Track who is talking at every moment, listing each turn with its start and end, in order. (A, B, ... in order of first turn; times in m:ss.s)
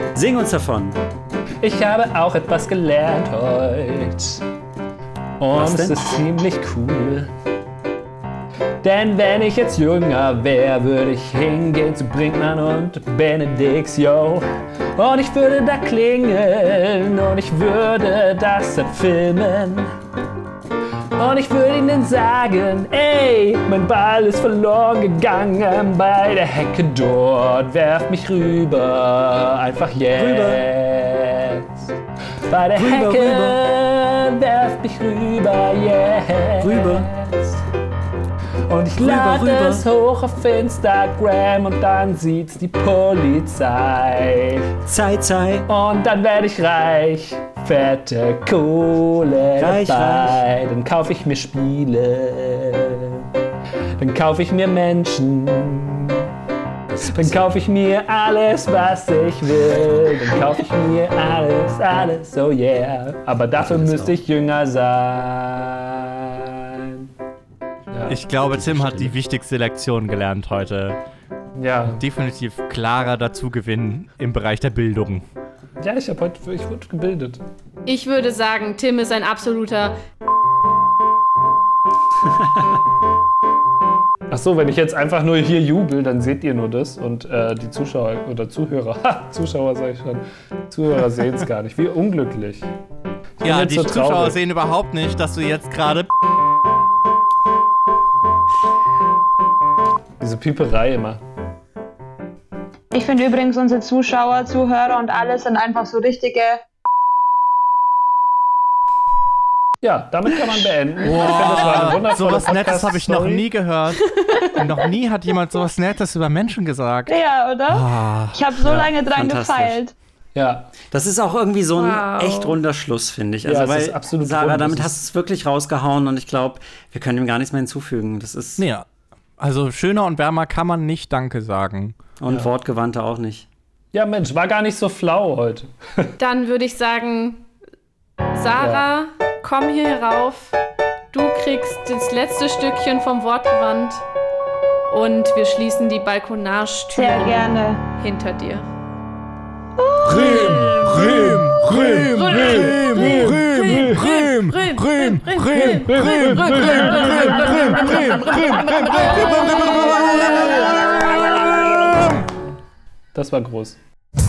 0:00.1-0:01.0 A
0:01.6-0:04.4 B
0:05.4-0:07.3 B
0:05.6-0:06.0 A
0:08.8-0:19.9 B
0:21.1-0:31.9 B
0:30.2-0:30.6 A
0:32.5-0:37.6 B
0:32.7-0:33.6 A
0:36.6-0:37.1 A
0:38.7-0:44.7 B
0:39.0-0:39.9 A
0:44.9-0:45.7 A
0:45.7-0:53.2 B
0:49.6-0:50.4 A
0:54.0-0:56.3 B
0:56.9-0:57.4 A
0:57.1-1:07.1 B
1:03.6-1:04.2 A
1:07.9-1:08.2 B
1:08.1-1:11.0 C
1:08.4-1:09.2 A
1:11.6-1:12.0 B
1:11.9-1:15.3 C
1:15.8-1:17.4 B
1:17.9-1:20.0 D
1:24.3-1:32.7 B
1:33.4-1:34.4 B
1:33.4-1:36.1 C
1:40.2-1:41.2 B
1:42.9-1:46.6 E
1:49.8-1:53.4 B
1:51.0-1:57.2 C
1:54.0-1:54.7 D
1:57.1-1:59.9 E
1:57.7-1:58.4 C
1:58.6-1:58.9 B
1:59.1-1:59.8 A
2:00.4-2:00.7 B
2:00.9-2:08.6 A
2:01.7-2:02.6 D
2:03.4-2:05.0 B
2:08.6-2:08.9 C
2:09.4-2:12.0 C
2:12.2-2:13.5 A
2:13.9-2:16.1 B
2:16.2-2:17.4 D
2:18.3-2:20.6 D
2:18.6-2:18.8 B
2:21.1-2:24.0 D
2:24.9-2:28.7 D
2:27.0-2:27.8 E
2:29.8-2:30.8 E
2:30.0-2:42.2 C
2:30.3-2:30.7 D
2:30.8-2:33.7 B
2:31.8-2:40.6 D
2:35.7-2:37.6 B
2:40.9-2:41.9 B
2:43.1-2:43.8 B